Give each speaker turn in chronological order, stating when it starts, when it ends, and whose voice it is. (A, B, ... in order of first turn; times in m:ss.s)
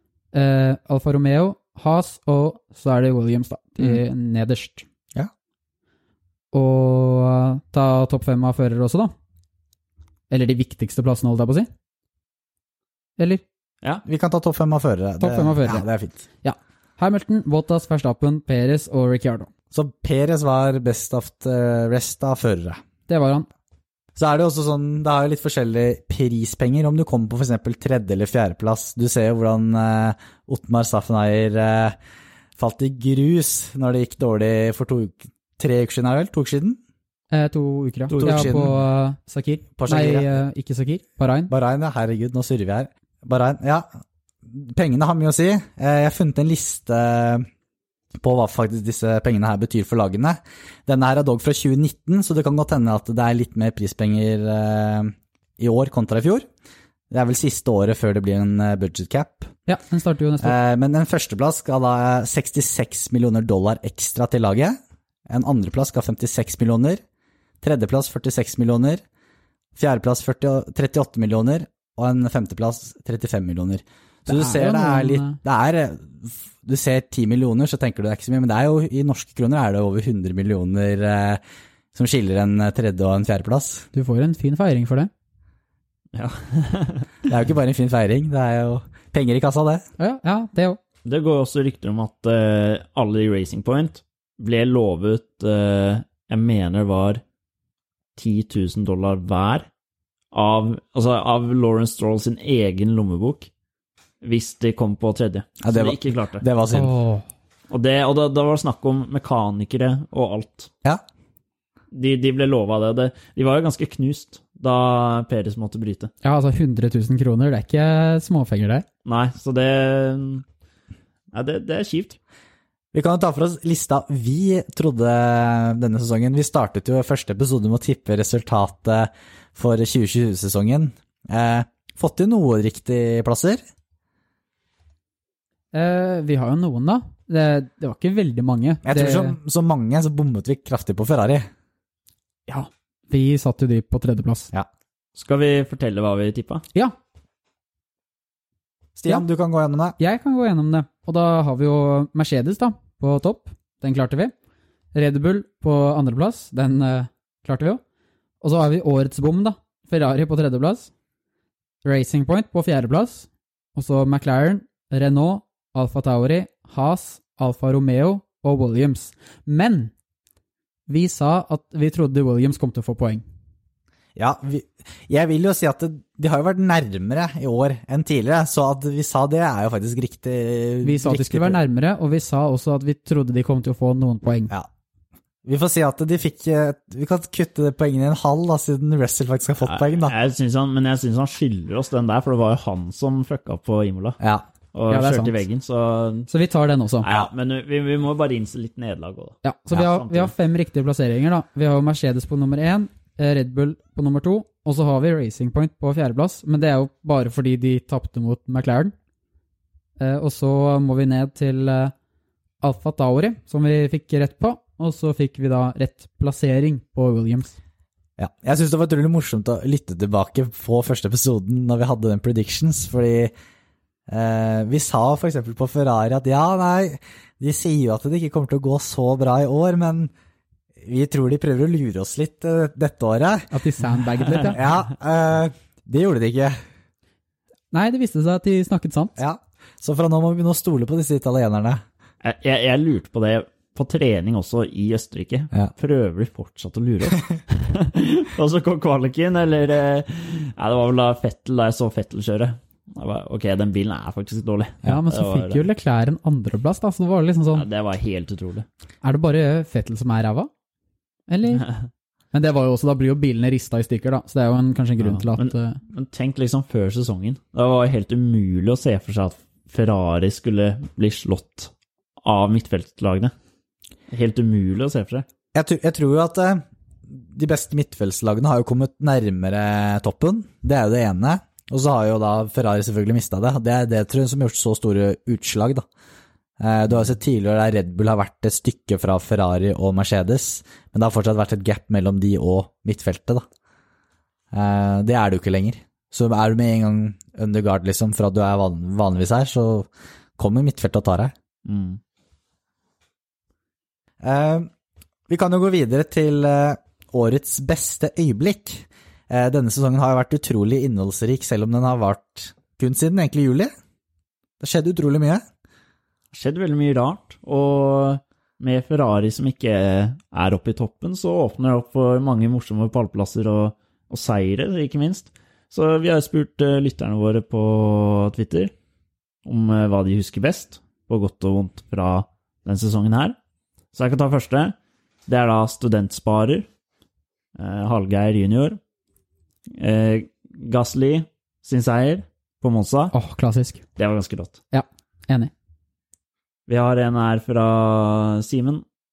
0:00.3-0:04.9 A
0:06.5-0:09.1 A
0:10.3-0:11.7 A
0:13.2-0:13.4 A
0:14.1-0:16.2 B
0:15.2-0:15.8 A
0:16.4-0:19.5 A
0:19.7-0:22.8 B
0:23.1-0:23.5 A
0:24.2-0:32.0 B
0:32.6-0:36.8 B
0:37.3-0:41.5 A
0:38.1-0:38.6 C
0:38.2-0:38.8 B
0:39.8-0:40.4 B
0:41.5-0:43.9 B
0:44.5-0:47.5 B
0:48.2-0:56.5 B
0:57.1-0:59.5 B
0:59.7-1:00.6 A
1:00.4-1:07.0 B
1:07.6-1:09.0 B
1:09.8-1:21.4 B
1:14.3-1:15.4 A
1:21.9-1:23.9 B
1:23.9-1:25.1 A
1:26.1-1:27.1 C
1:27.3-1:29.8 B
1:30.0-1:30.8 A
1:31.0-1:37.2 C
1:38.2-1:39.7 C
1:40.3-1:43.5 C
1:44.2-1:46.4 C
1:45.6-1:46.9 B
1:46.7-1:47.2 A
1:47.7-1:50.7 C
1:51.9-1:56.1 C
1:56.2-1:58.9 A
1:59.0-2:00.4 C
2:01.3-2:02.2 C
2:02.9-2:13.6 B
2:15.7-2:19.4 A
2:18.8-2:21.5 B
2:22.5-2:24.5 A
2:25.2-2:26.6 C
2:29.0-2:30.0 B
2:30.0-2:34.3 A
2:34.9-2:37.8 A
2:38.4-2:40.9 A
2:41.8-2:49.9 A
2:50.9-2:53.2 A
2:54.2-3:01.6 B
3:00.8-3:04.5 A
3:05.4-3:10.1 B
3:09.6-3:14.2 C
3:14.2-3:14.5 B
3:14.7-3:16.3 C
3:14.9-3:15.4 A
3:16.3-3:17.1 A
3:17.0-3:20.3 C
3:19.4-3:28.9 A
3:30.0-3:31.9 A
3:32.6-3:37.6 A
3:38.2-3:43.3 B
3:44.1-3:50.1 B
3:50.8-3:53.5 B
3:53.5-3:54.6 A
3:54.5-3:56.6 B
3:57.7-3:59.2 A
3:59.2-4:01.8 B
4:02.2-4:15.6 C
4:14.8-4:17.7 A
4:17.6-4:18.7 C
4:19.0-4:20.5 A
4:21.3-4:21.7 A
4:22.3-4:25.8 A
4:25.0-4:31.7 C
4:32.2-4:33.3 C
4:34.1-4:35.3 C
4:35.5-4:45.8 B
4:46.6-4:53.4 B
4:54.5-5:01.3 B
5:01.6-5:02.0 C
5:04.2-5:04.7 B
5:05.3-5:13.7 B
5:14.6-5:15.4 B
5:16.3-5:28.7 C
5:29.4-5:33.4 C
5:33.9-5:34.8 C
5:35.3-5:36.7 C
5:37.6-5:38.8 C
5:39.8-5:43.1 C
5:43.1-5:43.8 A
5:44.0-5:44.6 C
5:44.7-5:45.5 A
5:46.7-5:48.8 C